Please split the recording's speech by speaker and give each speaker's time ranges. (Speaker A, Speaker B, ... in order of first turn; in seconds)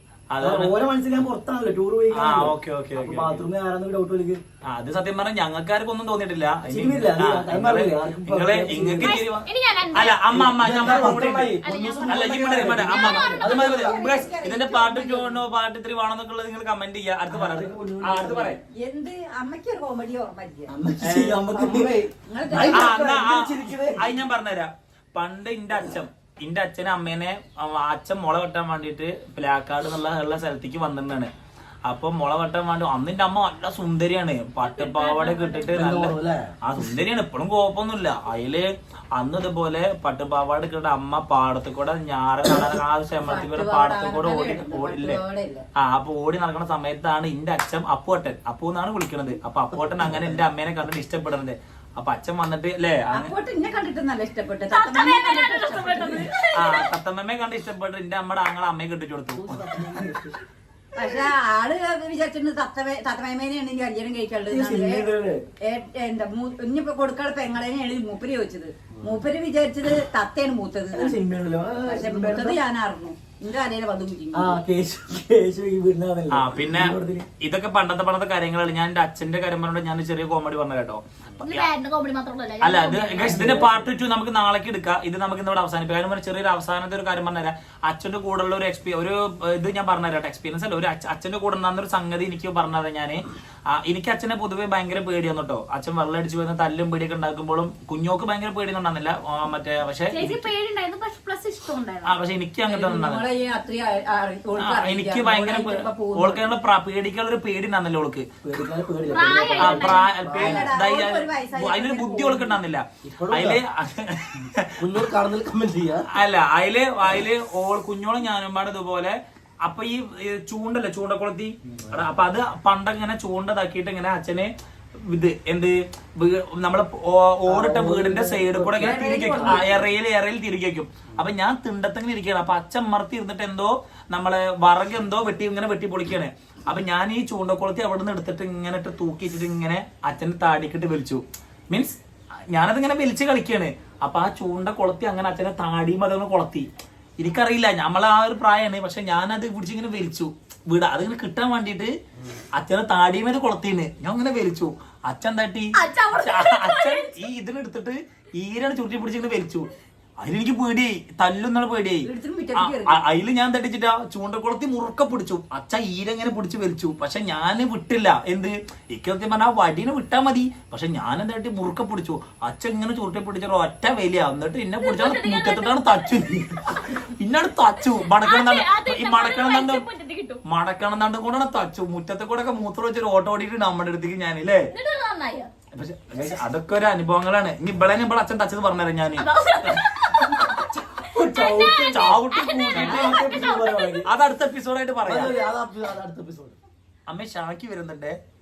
Speaker A: 0.3-0.7, 2.1-3.4, 4.7-18.6, 21.0-21.4, 22.5-31.3, 31.9-45.2, 45.8-53.3, 56.5-60.0, 76.3-81.7, 82.6-93.2, 93.7-100.5, 102.0-103.2, 104.6-108.2, 109.5-114.8, 116.1-124.5, 125.1-142.0, 142.5-146.7, 147.2-151.9, 152.5-159.7, 160.2-179.8, 180.4-184.7, 185.7-189.2, 191.9-193.2, 194.0-195.3, 197.1-198.2
Speaker B: 0.4-4.4, 6.6-9.2, 10.7-13.4, 17.3-18.6, 20.7-22.0, 60.0-60.3, 64.5-65.4, 70.9-72.6, 74.3-77.2, 83.2-83.9, 108.4-110.7, 127.5-129.8, 186.1-186.4, 190.9-194.1
Speaker C: 9.0-10.4, 11.6-13.7, 34.6-35.8, 54.6-56.8, 81.4-83.4, 100.1-102.1, 109.1-110.2, 155.8-157.2, 174.8-175.9, 176.8-177.0, 177.9-180.4, 184.7-185.5, 189.1-194.0
Speaker D: 10.3-14.2, 21.6-24.1, 35.7-36.5, 59.3-60.3, 68.9-69.3, 113.0-113.6, 114.8-116.0, 195.1-196.6
Speaker E: 12.8-15.4, 18.8-20.7, 22.3-22.9, 43.2-45.6, 53.1-56.3, 61.0-65.1, 65.6-71.2, 71.8-74.6, 102.7-106.4, 110.3-112.5, 128.8-129.8, 162.0-163.0